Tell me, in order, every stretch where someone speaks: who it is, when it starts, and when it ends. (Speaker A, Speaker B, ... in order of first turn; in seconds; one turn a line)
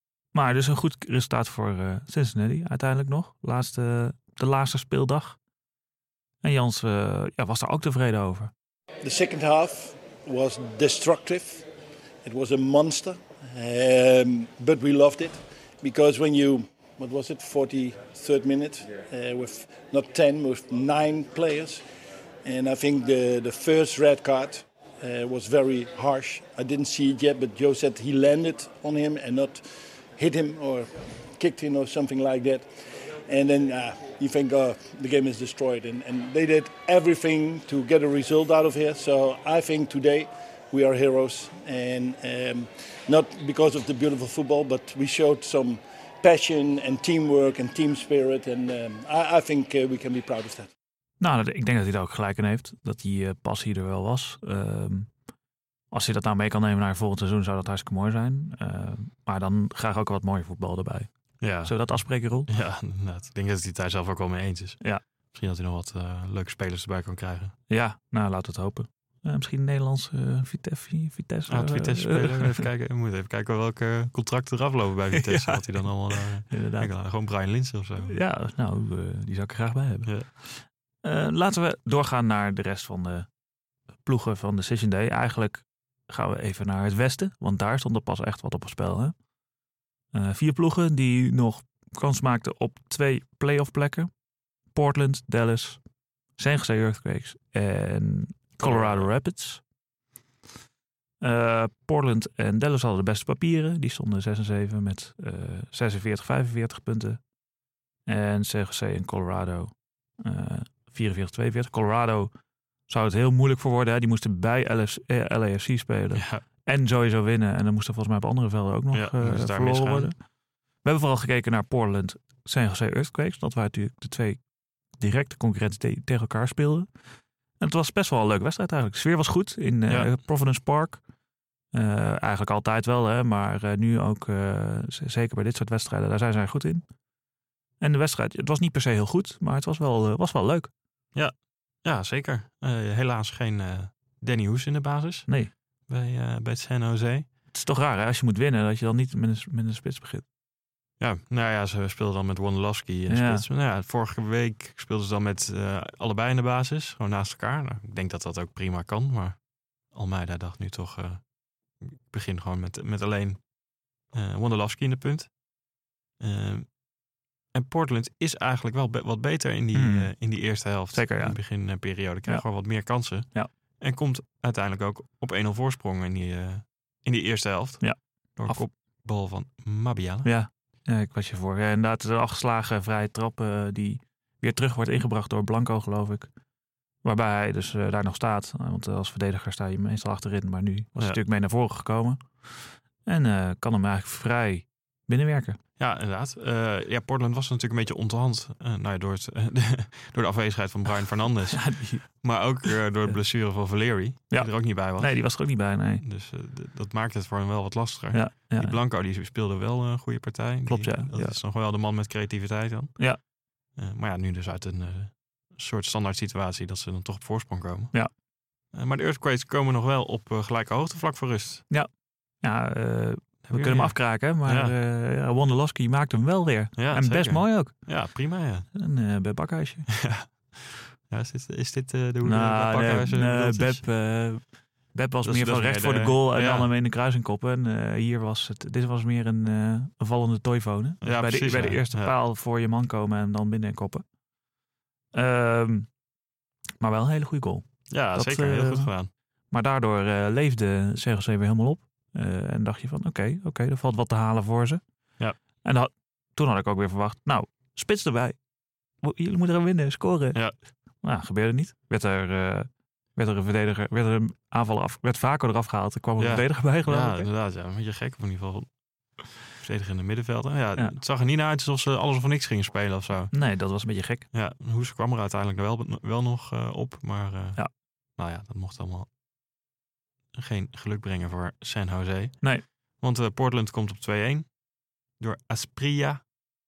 Speaker A: 0.3-5.4
Speaker A: 6.4-8.5
Speaker B: 9.0-11.7
Speaker B: 12.2-21.8
Speaker B: 22.4-29.6
Speaker B: 30.2-50.7
Speaker A: 51.2-55.1
Speaker A: 55.9-62.5
Speaker C: 61.4-67.6
Speaker A: 67.7-72.7
Speaker C: 71.5-78.2
Speaker A: 75.1-76.9
Speaker A: 78.0-83.3
Speaker A: 84.0-89.1
Speaker A: 90.1-94.1
Speaker A: 94.7-95.8
Speaker A: 96.4-99.6
Speaker C: 98.6-99.1
Speaker A: 101.2-107.2
Speaker A: 108.1-112.3
Speaker A: 112.9-120.2
Speaker C: 116.1-116.4
Speaker C: 118.9-120.1
Speaker A: 120.8-124.4
Speaker A: 125.0-126.9
Speaker A: 127.6-131.0
Speaker A: 131.7-136.8
Speaker A: 137.8-140.7
Speaker C: 141.1-145.4
Speaker A: 145.3-145.5
Speaker C: 145.9-147.3
Speaker A: 147.5-150.2
Speaker C: 151.0-163.5
Speaker A: 153.1-153.4
Speaker C: 164.1-165.4
Speaker C: 166.2-166.8
Speaker C: 167.5-180.3
Speaker A: 169.7-170.1
Speaker A: 170.7-171.6
Speaker A: 177.8-178.6
Speaker A: 180.2-186.3
Speaker A: 187.0-195.6
Speaker C: 195.8-205.3
Speaker A: 201.5-202.1
Speaker A: 202.6-203.2
Speaker A: 204.3-206.0
Speaker C: 206.0-213.2
Speaker A: 208.1-208.8
Speaker A: 210.7-211.4
Speaker C: 213.8-217.9
Speaker C: 218.7-221.7
Speaker A: 222.4-228.2
Speaker C: 223.4-224.7
Speaker C: 226.8-228.7
Speaker A: 228.7-229.9
Speaker C: 229.9-233.9
Speaker A: 232.2-244.0
Speaker C: 235.2-236.7
Speaker C: 241.0-242.1
Speaker A: 245.1-245.9
Speaker A: 246.8-248.9
Speaker C: 247.9-249.1
Speaker A: 249.5-254.8
Speaker A: 255.6-258.4
Speaker A: 259.0-260.4
Speaker A: 261.0-267.3
Speaker C: 266.2-273.3
Speaker A: 273.3-274.3
Speaker C: 274.3-277.6
Speaker C: 278.2-279.1
Speaker C: 280.3-284.6
Speaker C: 285.2-286.2